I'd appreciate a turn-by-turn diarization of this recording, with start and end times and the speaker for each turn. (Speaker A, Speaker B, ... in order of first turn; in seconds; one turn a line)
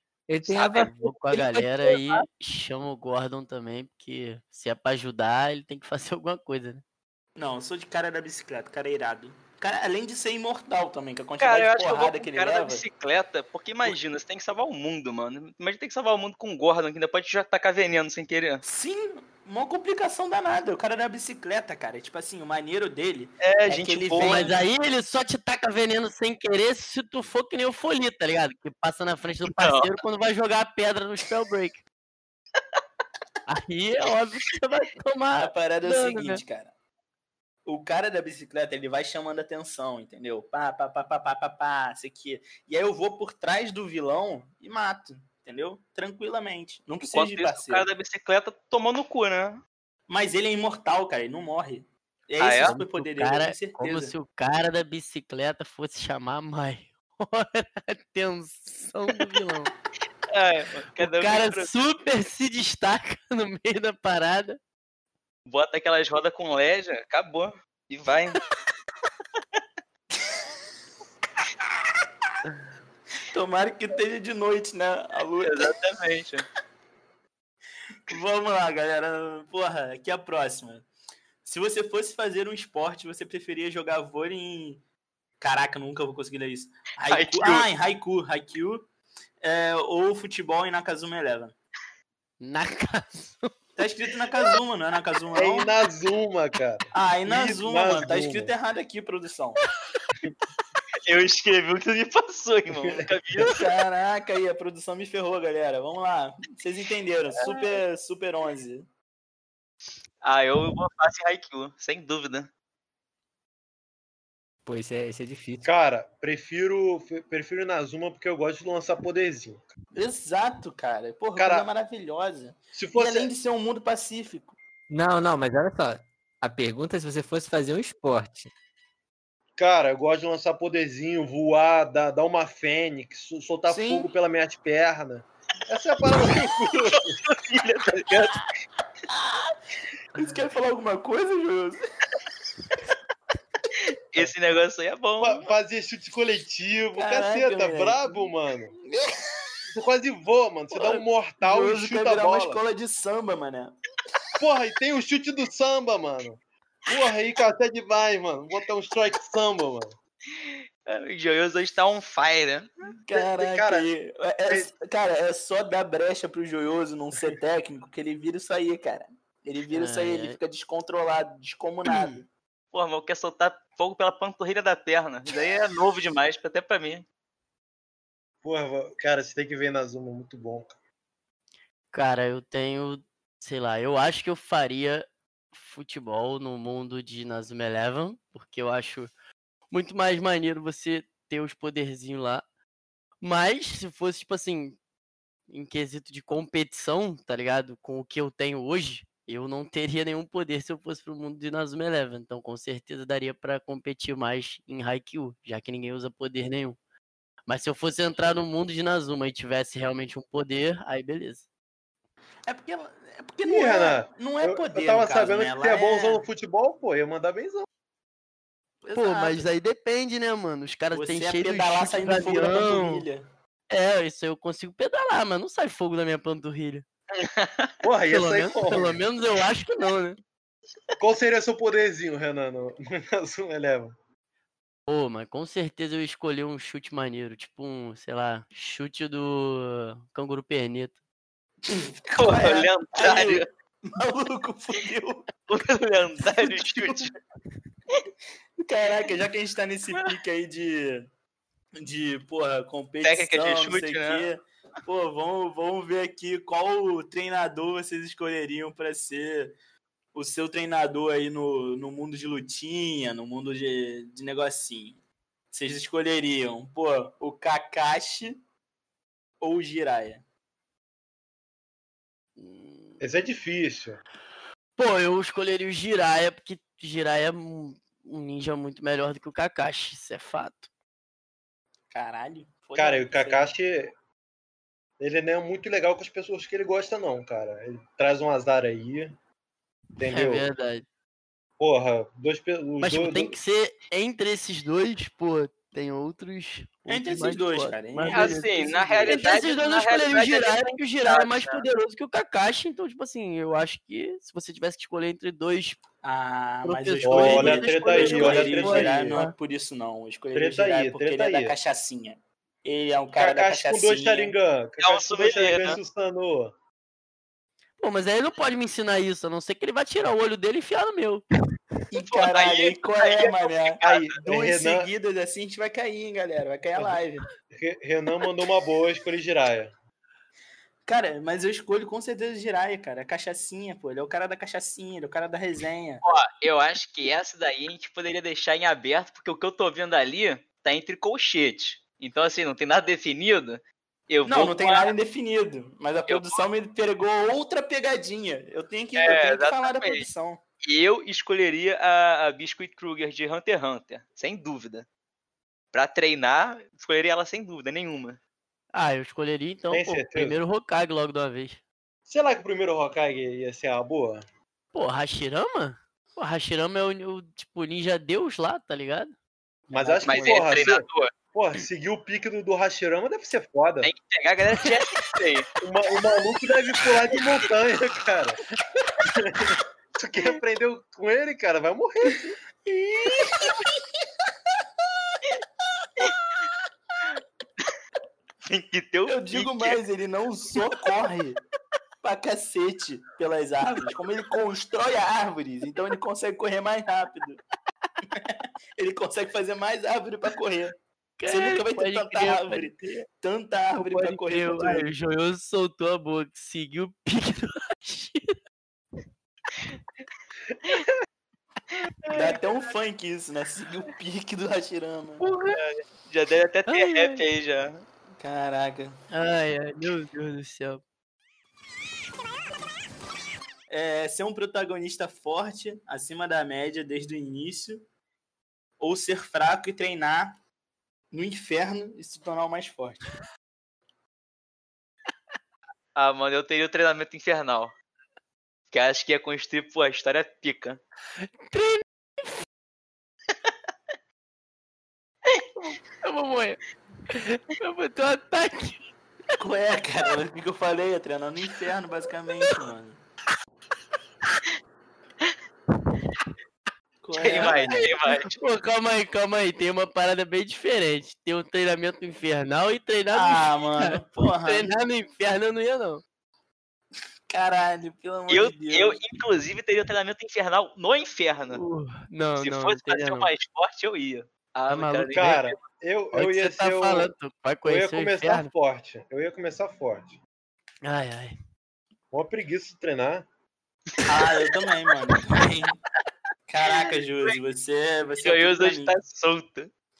Speaker A: 0.3-2.0
Speaker B: 0.6-6.8
Speaker C: 7.3-12.8
Speaker D: 11.4-18.6
Speaker C: 18.6-24.6
Speaker D: 23.4-24.5
Speaker B: 24.2-31.8
Speaker D: 29.5-29.9
Speaker B: 33.5-36.4
Speaker C: 35.4-36.7
Speaker C: 37.6-47.9
Speaker D: 47.0-49.6
Speaker C: 50.1-54.1
Speaker D: 52.4-52.8
Speaker B: 52.6-59.7
Speaker D: 60.3-61.7
Speaker B: 61.0-64.6
Speaker D: 65.5-68.4
Speaker C: 73.3-75.7
Speaker D: 75.4-76.5
Speaker C: 78.1-80.9
Speaker C: 81.4-84.8
Speaker C: 85.4-88.8
Speaker D: 87.1-87.7
Speaker C: 89.4-91.5
Speaker B: 92.4-93.5
Speaker C: 93.8-95.7
Speaker E: 95.3-98.5
Speaker C: 96.9-99.6
Speaker D: 101.0-103.6
Speaker E: 102.7-103.0
Speaker C: 103.3-108.8
Speaker D: 110.2-112.5
Speaker A: 114.7-115.7
Speaker E: 115.6-119.7
Speaker C: 119.9-124.6
Speaker E: 121.3-121.7
Speaker E: 122.7-123.3
Speaker A: 124.9-128.5
Speaker E: 129.6-137.2
Speaker C: 133.7-134.1
Speaker D: 136.9-138.4
Speaker C: 139.1-139.4
Speaker C: 140.1-141.8
Speaker D: 144.1-145.5
Speaker E: 145.2-148.7
Speaker C: 146.9-148.3
Speaker C: 148.8-149.3
Speaker E: 149.7-152.6
Speaker C: 150.7-153.8
Speaker E: 154.4-159.9
Speaker D: 160.4-162.7
Speaker C: 163.0-172.3
Speaker E: 163.1-163.9
Speaker E: 164.5-164.7
Speaker B: 169.7-170.4
Speaker B: 171.9-172.1
Speaker D: 172.7-177.1
Speaker E: 178.4-180.7
Speaker B: 181.9-189.1
Speaker B: 189.7-192.4
Speaker B: 193.2-194.8
Speaker B: 195.5-206.8
Speaker B: 207.5-211.4
Speaker C: 212.5-216.2
Speaker E: 213.4-217.7
Speaker C: 218.8-219.5
Speaker B: 218.9-223.1
Speaker C: 220.9-223.3
Speaker B: 223.7-226.8
Speaker D: 227.2-227.7
Speaker E: 227.8-229.0
Speaker B: 228.1-230.2
Speaker E: 231.0-233.9
Speaker B: 234.9-240.9
Speaker C: 241.7-245.3
Speaker D: 242.2-243.4
Speaker D: 245.5-247.1
Speaker C: 246.3-247.1
Speaker C: 248.6-251.1
Speaker C: 251.8-259.5
Speaker D: 253.0-254.2
Speaker C: 260.1-265.0
Speaker C: 265.5-268.4
Speaker C: 269.4-270.2
Speaker B: 272.4-273.0
Speaker E: 273.0-274.0
Speaker B: 274.8-280.7
Speaker C: 281.9-283.5
Speaker E: 282.8-283.9
Speaker E: 285.0-289.1
Speaker E: 290.0-290.5
Speaker B: 290.0-290.8
Speaker E: 291.6-293.4
Speaker B: 292.8-298.5
Speaker C: 296.9-299.2
Speaker D: 298.1-301.6
Speaker B: 299.1-305.8
Speaker C: 306.0-314.4
Speaker B: 306.6-309.3
Speaker E: 307.0-309.3
Speaker E: 310.3-311.6
Speaker E: 313.1-316.5
Speaker D: 314.8-315.8
Speaker B: 317.8-321.2
Speaker C: 321.9-327.2
Speaker D: 322.0-324.1
Speaker E: 323.8-324.9
Speaker E: 327.5-329.7
Speaker C: 330.9-336.0
Speaker D: 336.0-344.9
Speaker C: 344.2-350.4
Speaker D: 346.1-346.4
Speaker D: 349.0-350.1
Speaker D: 350.6-354.9
Speaker D: 355.7-358.2
Speaker B: 358.7-361.6
Speaker E: 359.7-360.4
Speaker E: 362.1-364.2
Speaker B: 364.7-369.1
Speaker E: 369.7-373.9
Speaker B: 369.8-370.7
Speaker D: 370.0-371.1
Speaker D: 373.8-375.5
Speaker E: 375.6-378.4
Speaker E: 379.0-382.4
Speaker C: 382.6-383.6
Speaker D: 388.4-389.8
Speaker C: 389.1-391.4
Speaker C: 392.0-397.4
Speaker C: 398.1-400.7
Speaker B: 401.2-403.0
Speaker C: 401.3-404.9
Speaker B: 403.8-408.4
Speaker B: 412.1-412.4
Speaker C: 412.1-415.2
Speaker B: 415.2-415.6
Speaker D: 415.5-417.8
Speaker B: 416.7-417.2
Speaker C: 418.2-418.9
Speaker B: 419.1-420.8
Speaker C: 423.7-427.8
Speaker C: 428.8-430.4
Speaker C: 431.1-433.1
Speaker D: 435.9-437.7
Speaker D: 438.7-440.8
Speaker B: 441.4-442.3
Speaker B: 445.6-448.8
Speaker C: 449.4-453.0
Speaker C: 457.0-457.8
Speaker D: 457.1-458.4
Speaker B: 457.4-466.0
Speaker C: 463.1-464.7
Speaker C: 467.3-469.0
Speaker D: 468.3-471.6
Speaker B: 471.5-473.3
Speaker D: 472.4-475.5
Speaker B: 474.7-475.4
Speaker E: 475.1-477.1
Speaker B: 476.1-478.5
Speaker E: 477.6-480.2
Speaker B: 480.8-481.4
Speaker E: 482.1-483.2
Speaker C: 484.1-485.8
Speaker C: 486.5-489.0
Speaker D: 488.2-489.7